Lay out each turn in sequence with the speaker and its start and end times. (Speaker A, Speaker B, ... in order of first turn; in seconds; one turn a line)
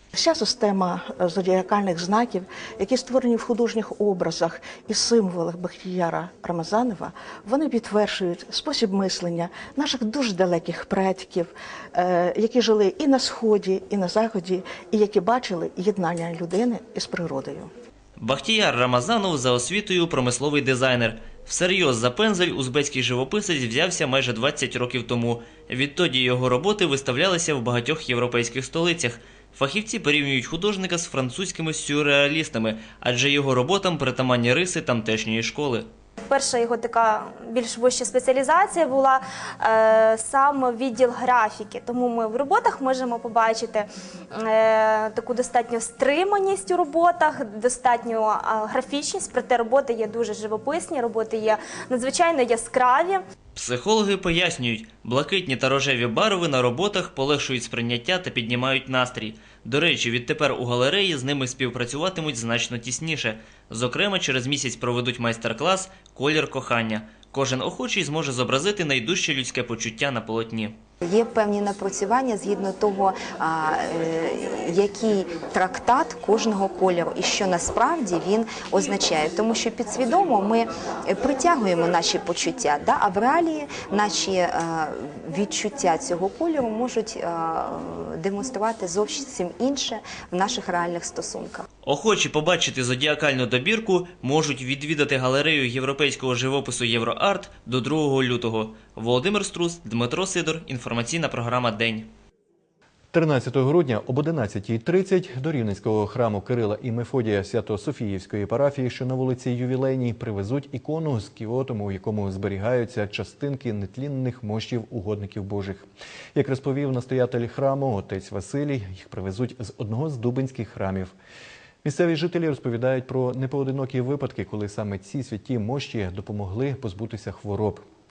Speaker A: 0.1-17.7
Speaker B: 18.2-35.9
Speaker C: 36.3-43.8
Speaker C: 44.4-53.2
Speaker B: 53.6-70.7
Speaker D: 71.0-91.7
Speaker B: 91.8-102.1
Speaker E: 103.1-121.1
Speaker E: 121.8-127.8